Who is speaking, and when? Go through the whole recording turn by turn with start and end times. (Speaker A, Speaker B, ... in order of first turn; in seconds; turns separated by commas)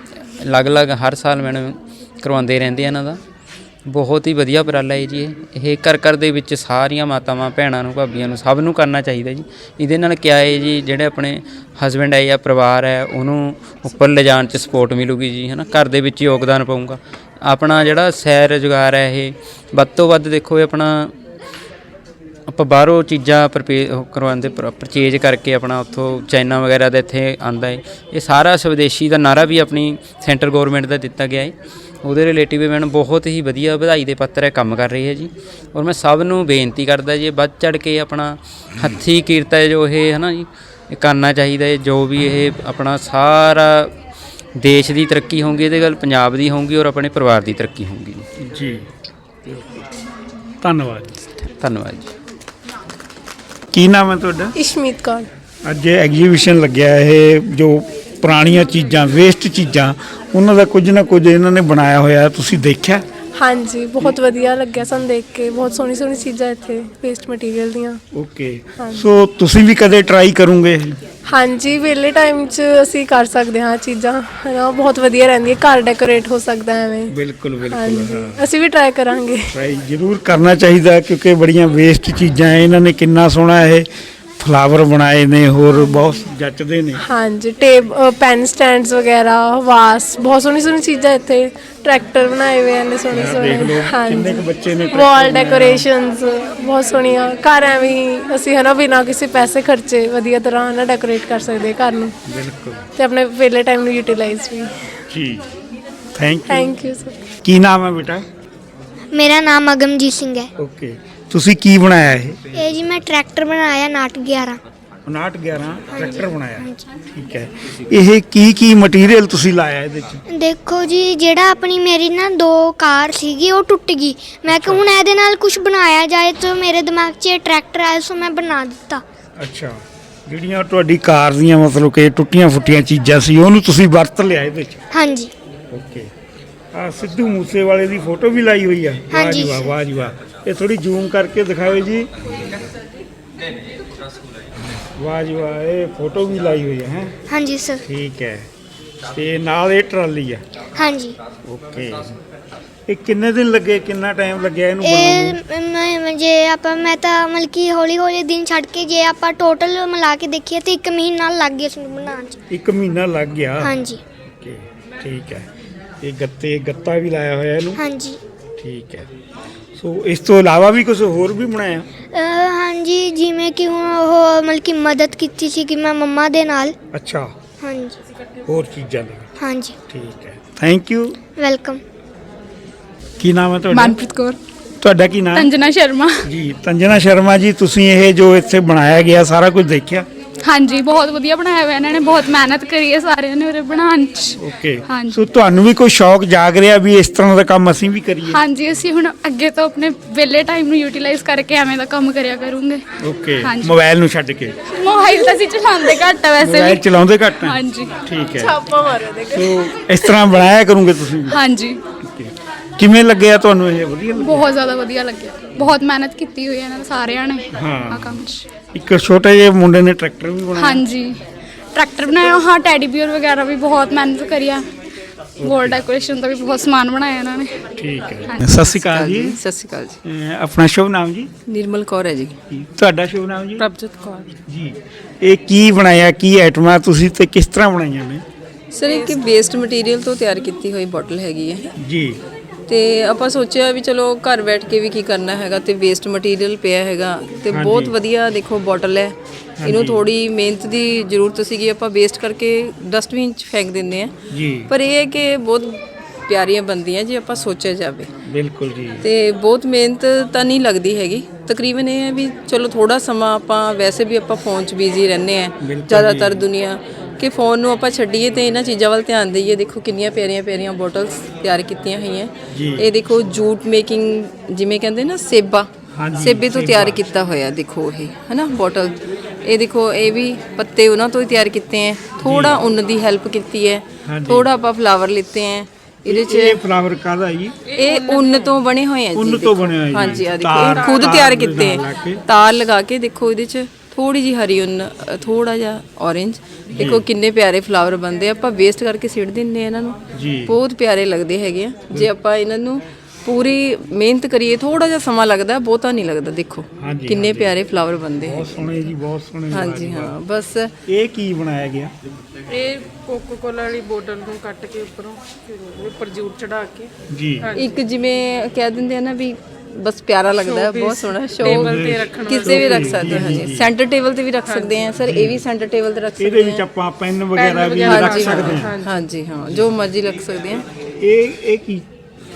Speaker A: 0.4-3.2, Speaker A: 3.9-21.1, Speaker A: 22.5-43.9, Speaker A: 44.6-48.3, Speaker B: 48.4-48.9, Speaker B: 50.6-51.2, Speaker A: 51.4-52.1, Speaker B: 53.7-54.5, Speaker C: 54.6-55.3, Speaker B: 55.6-63.0, Speaker C: 63.4-68.0, Speaker B: 68.1-71.0, Speaker C: 71.3-77.1, Speaker B: 77.1-78.5, Speaker C: 77.7-79.5, Speaker B: 79.5-83.9, Speaker B: 84.4-87.0, Speaker C: 85.8-86.0, Speaker C: 87.0-102.2, Speaker B: 93.1-95.9, Speaker B: 102.3-102.9, Speaker C: 103.0-104.8, Speaker B: 105.1-105.5, Speaker B: 106.2-106.7, Speaker C: 106.5-107.2, Speaker B: 107.4-108.3, Speaker D: 109.1-110.5, Speaker B: 110.6-112.5, Speaker D: 112.5-114.6, Speaker B: 115.1-120.2, Speaker D: 116.0-116.8, Speaker D: 120.3-129.0, Speaker B: 124.5-124.8, Speaker B: 129.4-134.8, Speaker D: 134.9-135.3, Speaker B: 135.7-136.1, Speaker B: 136.7-142.1, Speaker D: 139.1-139.7, Speaker B: 144.7-147.2, Speaker D: 147.3-147.8, Speaker B: 147.8-148.5, Speaker B: 149.1-150.4, Speaker D: 150.8-151.2, Speaker B: 151.4-152.2, Speaker B: 152.9-155.4, Speaker D: 154.8-162.4, Speaker B: 162.5-163.8, Speaker D: 163.6-164.0, Speaker B: 164.3-165.5, Speaker B: 166.0-167.8, Speaker D: 167.8-168.2, Speaker B: 168.6-169.1, Speaker B: 169.8-171.9, Speaker D: 172.1-176.8, Speaker B: 176.9-177.3, Speaker D: 177.6-178.0, Speaker B: 178.5-179.3, Speaker D: 179.4-179.8, Speaker B: 179.9-181.2, Speaker D: 181.4-181.8, Speaker B: 183.2-184.0, Speaker E: 183.7-184.4, Speaker B: 184.8-185.5, Speaker E: 185.3-186.3, Speaker B: 186.2-190.1, Speaker E: 190.5-194.4, Speaker B: 194.4-198.4, Speaker E: 194.9-195.2, Speaker E: 198.3-202.8, Speaker B: 203.0-204.6, Speaker E: 203.4-203.7, Speaker E: 204.7-206.8, Speaker B: 206.4-208.6, Speaker E: 207.4-207.9, Speaker C: 208.4-209.6, Speaker B: 209.3-211.4, Speaker E: 211.3-211.8, Speaker B: 212.0-214.5, Speaker E: 214.2-218.4, Speaker B: 217.5-218.2, Speaker B: 218.7-220.8, Speaker E: 220.6-221.2, Speaker E: 221.7-224.7, Speaker B: 225.4-225.8, Speaker E: 225.4-227.5, Speaker B: 227.8-229.4, Speaker E: 228.3-228.5, Speaker F: 228.6-230.0, Speaker B: 230.0-231.3, Speaker F: 231.5-232.3, Speaker B: 232.5-233.7, Speaker G: 233.6-234.3, Speaker B: 234.5-238.2, Speaker F: 238.7-241.7, Speaker B: 241.8-242.2, Speaker F: 242.7-254.1, Speaker B: 247.5-247.9, Speaker B: 249.6-250.0, Speaker B: 254.3-254.7, Speaker F: 254.7-258.1, Speaker B: 258.3-259.1, Speaker F: 259.0-286.6, Speaker B: 265.6-266.4, Speaker B: 272.5-272.9, Speaker B: 275.9-277.0, Speaker B: 282.2-282.6, Speaker B: 284.1-284.5, Speaker B: 286.1-287.6, Speaker G: 287.7-288.6, Speaker F: 287.7-308.5, Speaker B: 289.1-292.2, Speaker G: 290.8-291.2, Speaker B: 296.8-297.1, Speaker B: 300.1-300.6, Speaker B: 306.8-307.6, Speaker B: 308.2-310.2, Speaker F: 309.5-310.7, Speaker B: 310.9-311.9, Speaker G: 312.5-316.9, Speaker B: 317.1-317.5, Speaker G: 317.4-317.7, Speaker F: 317.6-326.6, Speaker G: 320.4-323.5, Speaker B: 321.4-323.7, Speaker G: 324.5-324.9, Speaker B: 325.0-325.4, Speaker B: 326.2-328.8, Speaker G: 327.4-329.0, Speaker F: 327.8-330.6, Speaker B: 331.0-331.9